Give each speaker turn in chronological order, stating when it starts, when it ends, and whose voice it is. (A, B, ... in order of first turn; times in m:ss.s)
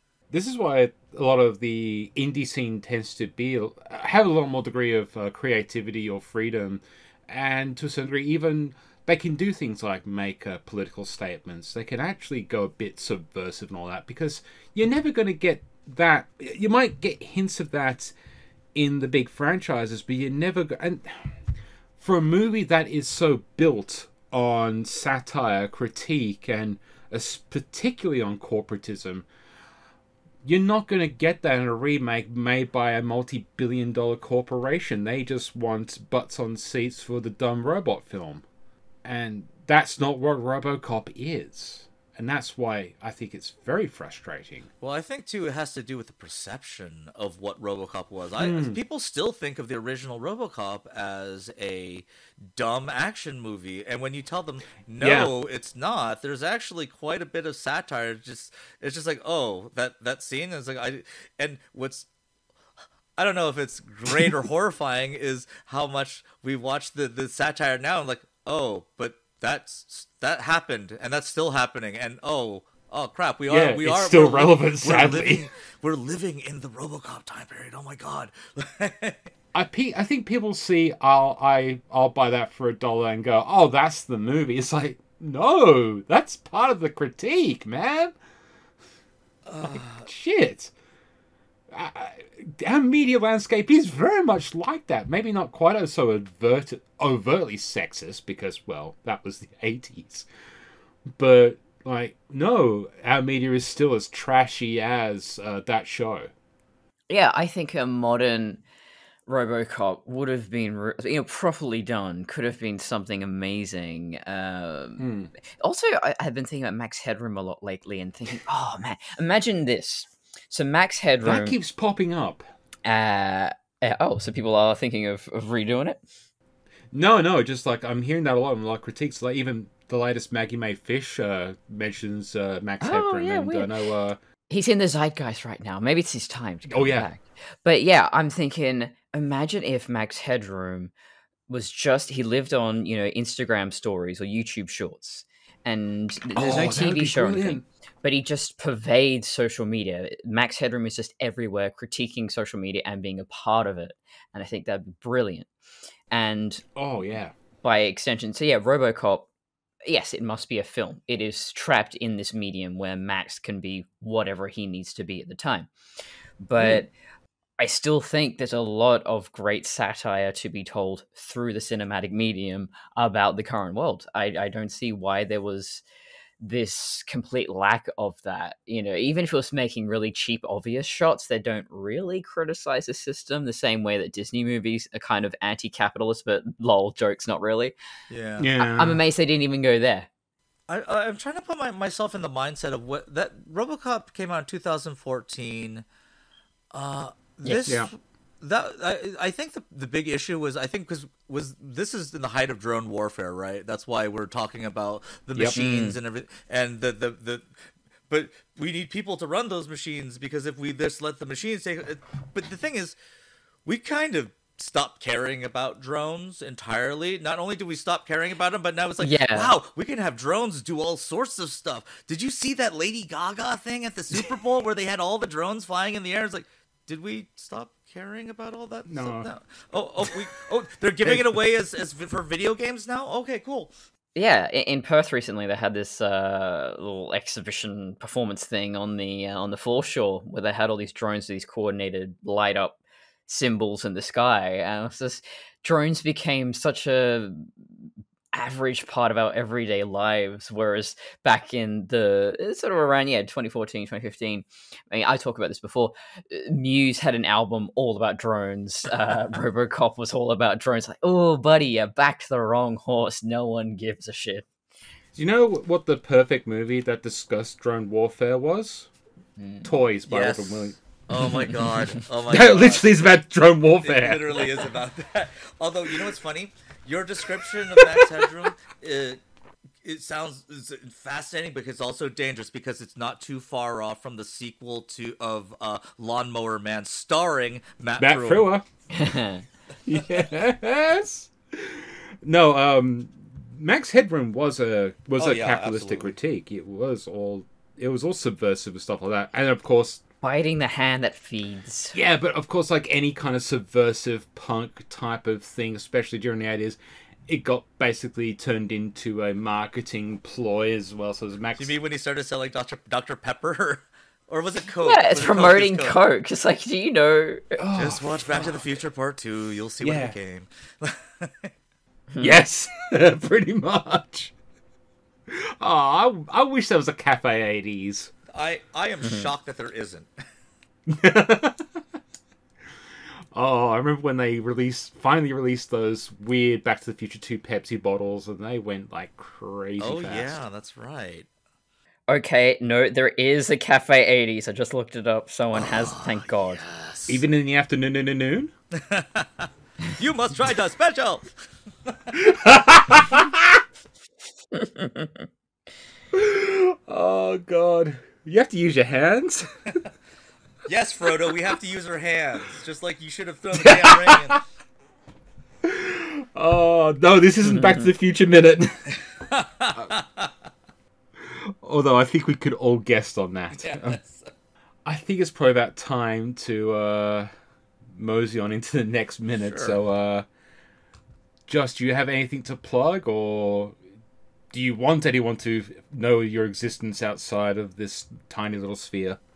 0:00.3-0:18.1 A
0:18.8-0:21.4 A
0:22.0-0:29.3 A
0:30.4-0:38.4 A
0:39.0-0:44.7 A
0:44.8-1:02.1 B
0:48.4-0:48.8 A
0:55.0-0:55.3 A
1:03.2-1:19.3 B
1:13.5-1:15.5 A
1:19.5-1:28.2 A
1:29.5-1:30.1 B
1:29.6-1:30.7 A
1:31.7-1:40.3 A
1:41.2-1:46.3 A
1:47.1-1:48.6 C
1:49.3-1:55.1 C
1:55.0-1:55.3 A
1:55.6-2:01.6 C
2:01.2-2:02.4 A
2:02.8-2:06.0 C
2:06.9-2:14.2 A
2:12.8-2:13.7 C
2:14.5-2:20.9 C
2:16.7-2:17.1 A
2:21.5-2:35.5 C
2:26.3-2:27.6 A
2:36.1-2:36.6 C
2:36.8-2:37.3 A
2:37.6-2:39.3 C
2:39.8-2:45.7 C
2:46.4-2:46.9 C
2:46.6-2:46.8 A
2:47.6-2:55.8 C
2:56.4-3:07.7 C
3:08.1-3:08.5 B
3:08.4-3:09.0 A
3:08.6-3:10.1 C
3:10.7-3:15.8 B
3:16.7-3:27.5 B
3:17.4-3:17.7 C
3:17.7-3:17.9 A
3:25.5-3:26.0 C
3:28.1-3:33.0 B
3:33.7-3:53.7 B
3:39.0-3:39.6 C
3:48.9-3:49.3 A
3:51.0-3:51.4 A
3:54.2-4:07.5 C
4:08.3-4:24.5 C
4:25.2-4:28.9 A
4:29.4-4:29.7 C
4:29.6-4:30.8 A
4:30.1-4:33.1 B
4:32.3-4:34.6 A
4:33.8-4:39.2 B
4:37.8-4:38.0 A
4:39.8-4:48.5 B
4:48.0-4:48.6 A
4:48.9-4:49.4 C
4:49.9-5:00.0 A
4:55.2-4:56.1 B
5:00.2-5:02.0 C
5:01.9-5:11.8 A
5:11.6-5:16.0 B
5:14.8-5:17.6 C
5:17.6-5:18.6 A
5:17.8-5:21.5 B
5:19.8-5:20.2 A
5:22.1-5:22.4 C
5:22.2-5:24.3 A
5:25.3-5:28.1 A
5:28.3-5:30.1 B
5:29.0-5:29.3 C
5:30.9-5:31.8 A
5:33.3-5:40.4 A
5:39.8-5:41.3 B
5:42.1-5:46.6 C
5:45.6-5:47.2 B
5:47.1-5:48.5 A
5:48.7-5:52.0 B
5:52.1-5:53.6 A
5:54.6-5:55.1 C
5:56.1-5:59.7 A
6:00.6-6:04.4 B
6:03.5-6:04.4 A
6:05.6-6:09.0 A
6:07.5-6:07.9 C
6:09.3-6:10.3 B
6:11.2-6:14.0 A
6:13.6-6:14.3 B
6:14.8-6:17.3 A
6:17.9-6:20.3 A
6:19.4-6:19.8 B
6:21.5-6:23.8 A
6:24.5-6:29.2 A